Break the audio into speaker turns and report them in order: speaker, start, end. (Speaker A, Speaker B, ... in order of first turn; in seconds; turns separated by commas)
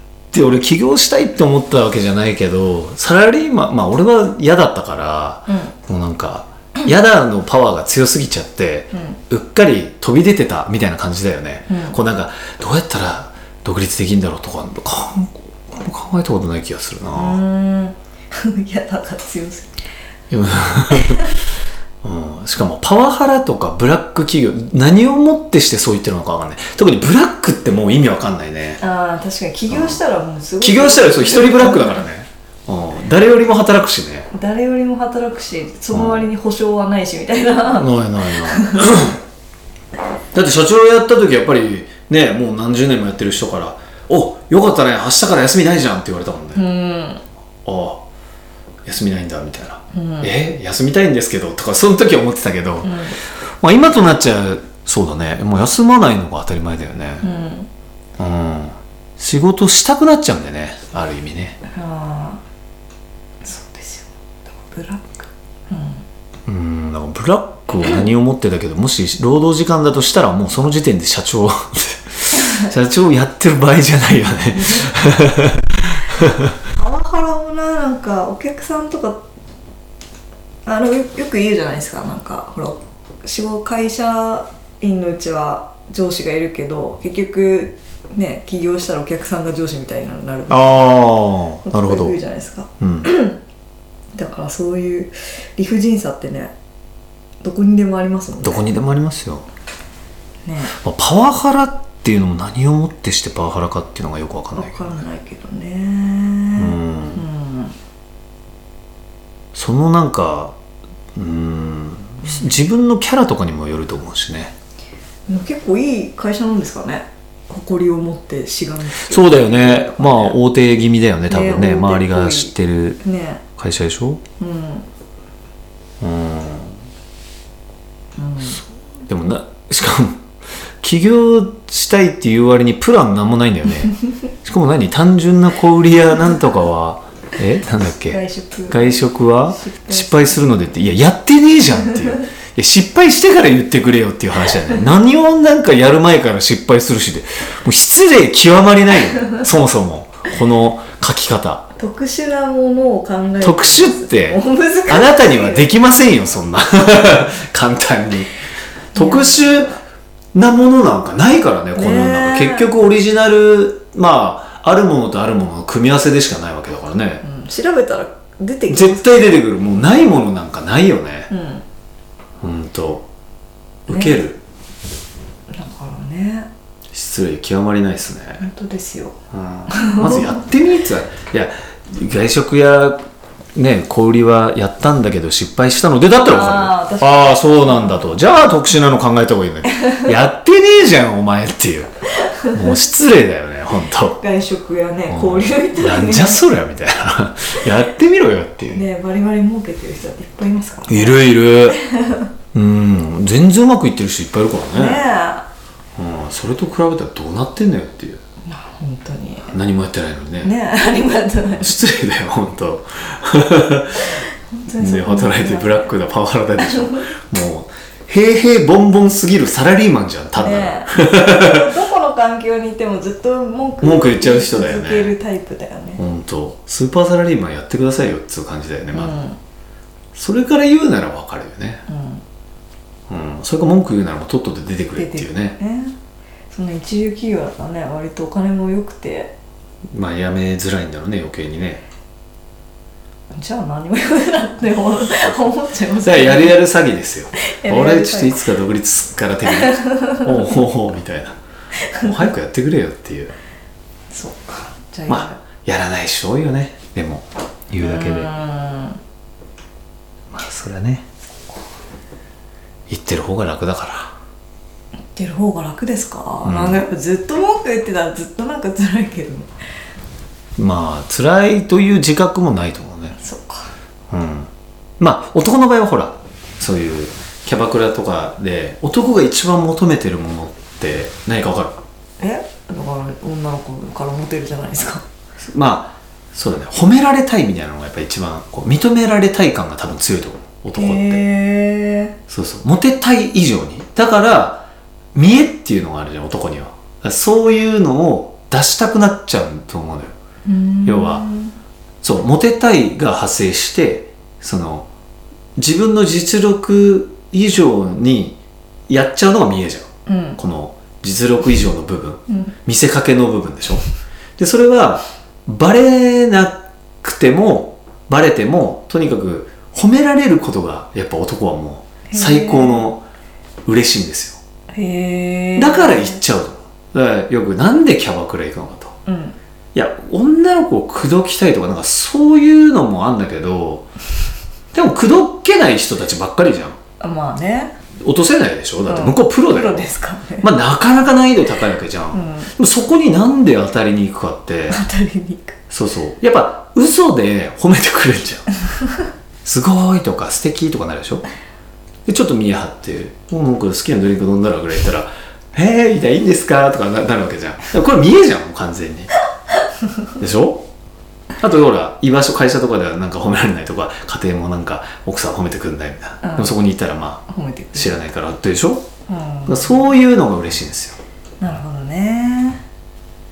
Speaker A: 0.3-17.4, Speaker B: 5.5-5.7, Speaker B: 11.7-12.0, Speaker B: 17.1-19.8, Speaker A: 20.3-21.3, Speaker B: 20.9-21.3, Speaker A: 22.0-28.8, Speaker B: 28.8-32.1, Speaker A: 29.7-30.0, Speaker A: 30.6-34.3, Speaker B: 34.3-39.0, Speaker A: 35.9-36.3, Speaker A: 37.7-39.2, Speaker A: 40.3-46.7, Speaker B: 46.5-47.2, Speaker A: 47.6-48.0, Speaker A: 48.9-53.0, Speaker B: 49.9-50.3, Speaker B: 52.8-53.1, Speaker A: 53.6-57.3, Speaker B: 57.2-57.7, Speaker A: 58.2-61.6, Speaker B: 61.7-62.4, Speaker B: 63.4-66.0, Speaker A: 66.5-76.5, Speaker B: 74.5-74.9, Speaker B: 76.7-79.2, Speaker B: 80.7-90.9, Speaker A: 90.5-92.2, Speaker B: 91.7-93.4, Speaker A: 92.8-93.1, Speaker B: 94.2-96.5, Speaker B: 97.4-98.7, Speaker A: 98.4-99.5, Speaker B: 100.5-100.8, Speaker A: 100.7-105.0, Speaker B: 104.5-107.8, Speaker A: 106.6-107.2, Speaker A: 109.5-110.6, Speaker A: 111.2-114.5, Speaker B: 115.3-120.4, Speaker A: 119.1-123.0, Speaker B: 121.3-123.4, Speaker A: 123.6-124.2, Speaker B: 124.4-124.9, Speaker A: 126.0-126.8, Speaker B: 128.2-128.6, Speaker A: 129.1-130.2, Speaker A: 130.8-151.7, Speaker B: 137.8-140.7, Speaker B: 151.8-155.7, Speaker A: 153.4-158.3, Speaker A: 158.9-159.7, Speaker B: 158.9-159.8, Speaker A: 160.3-167.2, Speaker B: 161.8-162.7, Speaker B: 167.2-169.4, Speaker A: 168.7-171.3, Speaker B: 171.3-171.6, Speaker A: 172.4-173.1, Speaker A: 173.9-174.4, Speaker B: 173.9-174.2, Speaker B: 175.5-176.5, Speaker A: 176.9-178.5, Speaker B: 178.4-179.2, Speaker A: 179.3-183.0, Speaker B: 179.7-180.4, Speaker A: 183.6-191.9, Speaker B: 186.1-188.3, Speaker B: 192.2-192.8, Speaker A: 192.5-194.2, Speaker B: 194.2-196.4, Speaker A: 195.1-198.8, Speaker B: 198.7-202.3, Speaker A: 200.9-201.8, Speaker A: 202.5-205.0, Speaker B: 204.7-205.5, Speaker A: 206.0-208.2, Speaker B: 208.5-209.5, Speaker A: 209.5-210.5, Speaker B: 210.4-211.8, Speaker A: 211.6-214.2, Speaker B: 214.5-215.9, Speaker A: 214.8-221.7, Speaker B: 216.6-217.0, Speaker B: 220.4-226.0, Speaker A: 223.8-225.2, Speaker A: 226.0-229.2, Speaker B: 228.9-229.4, Speaker A: 230.2-231.8, Speaker B: 231.9-232.2, Speaker A: 233.1-235.6, Speaker B: 235.0-236.0, Speaker B: 236.5-239.3, Speaker A: 239.9-241.8, Speaker B: 243.3-246.6, Speaker A: 246.0-251.4, Speaker B: 247.4-248.4, Speaker B: 249.5-250.3, Speaker B: 251.9-252.3, Speaker A: 252.0-253.3, Speaker B: 254.1-255.4, Speaker A: 255.1-258.3, Speaker B: 257.8-259.0, Speaker A: 260.3-261.1, Speaker A: 262.9-264.1, Speaker B: 265.1-269.5, Speaker A: 266.4-266.8, Speaker A: 270.6-273.2, Speaker B: 273.2-273.7, Speaker A: 274.1-281.8, Speaker B: 282.2-285.0, Speaker A: 285.4-291.2, Speaker B: 290.8-292.1, Speaker A: 292.3-300.1, Speaker B: 300.5-301.5, Speaker A: 300.9-301.3, Speaker A: 302.0-304.9, Speaker A: 305.6-313.9, Speaker B: 310.1-310.4, Speaker A: 314.4-323.0, Speaker B: 322.1-322.9, Speaker A: 323.7-324.4, Speaker B: 324.7-326.2, Speaker A: 325.6-328.9, Speaker B: 329.1-329.4, Speaker A: 329.7-333.9, Speaker A: 334.7-336.8, Speaker B: 337.0-337.7, Speaker A: 338.0-344.8, Speaker B: 338.9-340.5, Speaker B: 342.1-342.5, Speaker B: 344.7-345.6, Speaker A: 345.7-348.5, Speaker A: 349.4-351.2, Speaker A: 352.1-359.1, Speaker A: 360.2-360.7, Speaker A: 361.4-367.2, Speaker B: 366.2-366.6, Speaker B: 367.3-368.0, Speaker A: 367.8-368.9, Speaker B: 369.1-369.9, Speaker A: 369.5-371.0, Speaker B: 371.4-372.6